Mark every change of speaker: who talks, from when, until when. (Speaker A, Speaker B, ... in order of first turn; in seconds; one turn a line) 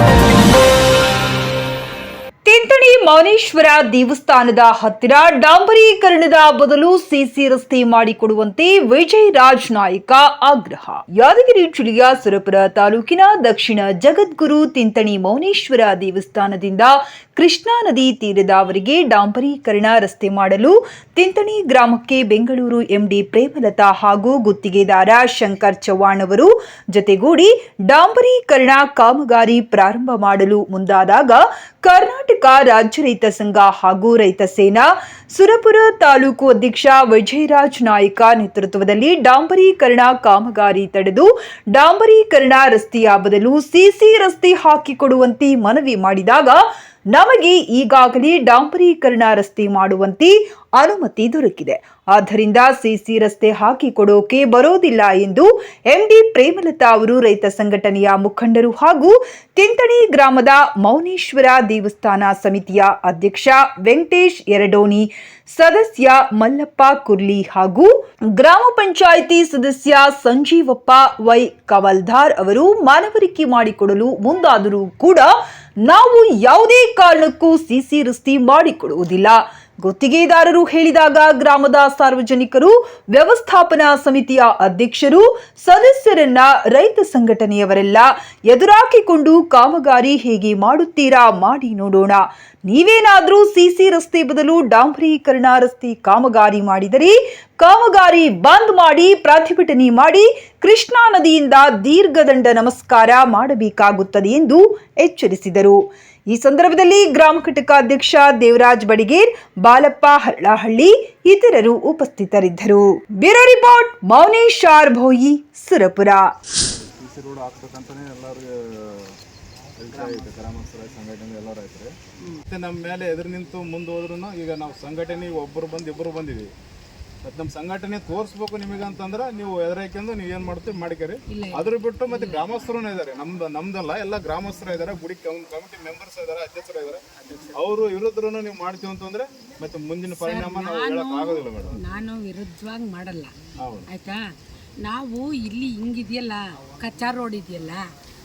Speaker A: 2.5-75.3
Speaker A: 75.8-116.3
Speaker B: 116.8-119.2
Speaker B: 119.8-121.9
Speaker B: 122.5-126.5
Speaker B: 127.2-137.0
Speaker C: 131.3-132.5
Speaker B: 137.5-141.8
Speaker C: 140.2-143.3
Speaker B: 143.6-143.9
Speaker C: 143.9-144.2
Speaker C: 144.8-147.9